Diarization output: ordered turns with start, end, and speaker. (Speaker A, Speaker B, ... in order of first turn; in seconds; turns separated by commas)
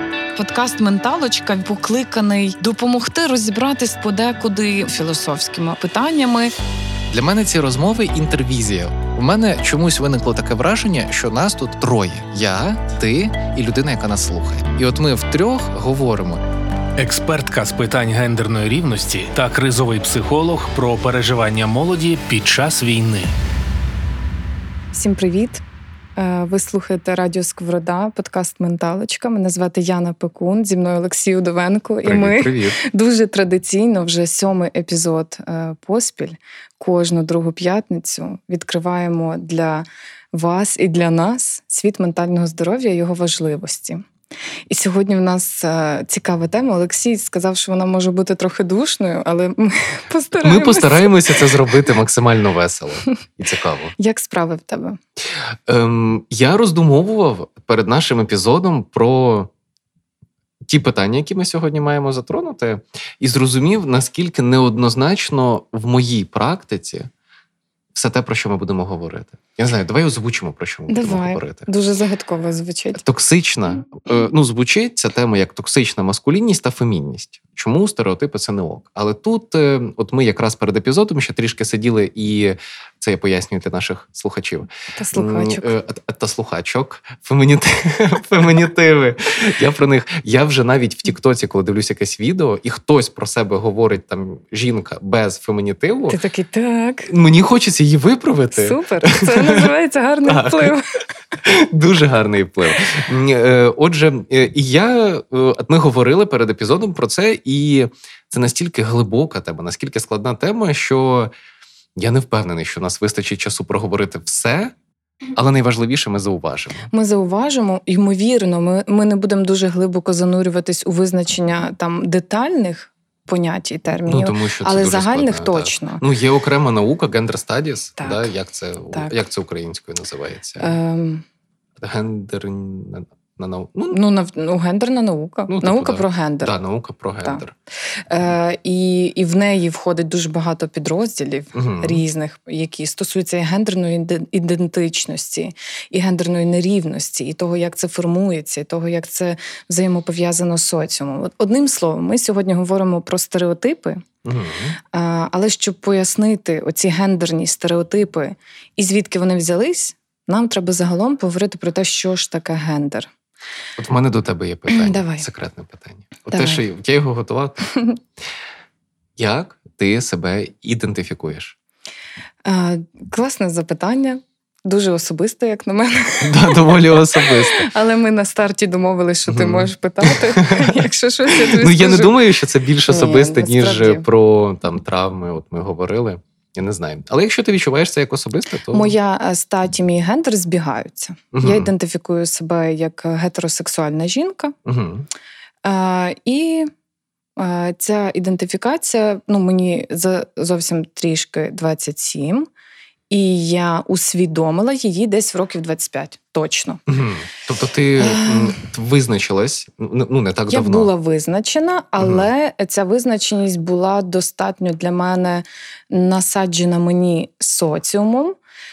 Speaker A: 0.3-6.5, Speaker B: 7.1-16.4, Speaker C: 17.0-23.3, Speaker A: 24.9-25.6, Speaker A: 26.2-44.0, Speaker B: 32.0-32.8, Speaker A: 44.7-51.1, Speaker B: 50.4-53.9, Speaker A: 54.0-55.0, Speaker B: 55.7-59.5, Speaker B: 60.6-67.1, Speaker B: 67.9-71.7, Speaker A: 70.9-73.0, Speaker B: 73.0-96.2, Speaker A: 85.0-85.7, Speaker A: 96.1-97.1, Speaker B: 97.1-99.7, Speaker A: 98.5-100.8, Speaker B: 100.3-100.7, Speaker B: 101.4-111.3, Speaker B: 112.0-114.7, Speaker B: 115.3-116.9, Speaker A: 116.9-126.0, Speaker B: 124.0-130.7, Speaker A: 128.0-128.3, Speaker A: 128.9-129.2, Speaker A: 130.6-131.2, Speaker B: 131.8-134.0, Speaker A: 133.9-136.5, Speaker B: 135.5-137.5, Speaker A: 138.1-154.0, Speaker B: 141.5-142.0, Speaker B: 154.2-154.8, Speaker A: 154.9-163.1, Speaker B: 163.8-167.7, Speaker A: 164.7-165.2, Speaker A: 166.3-166.6, Speaker B: 169.2-171.6, Speaker A: 172.4-182.2, Speaker B: 176.2-177.7, Speaker B: 179.3-188.9, Speaker A: 182.9-184.1, Speaker A: 188.7-194.5, Speaker B: 191.3-191.7, Speaker B: 194.6-195.1, Speaker A: 195.6-196.7, Speaker A: 197.4-202.5, Speaker A: 203.1-206.8, Speaker B: 206.9-210.9, Speaker A: 208.0-208.6, Speaker A: 210.5-218.4, Speaker B: 212.0-212.3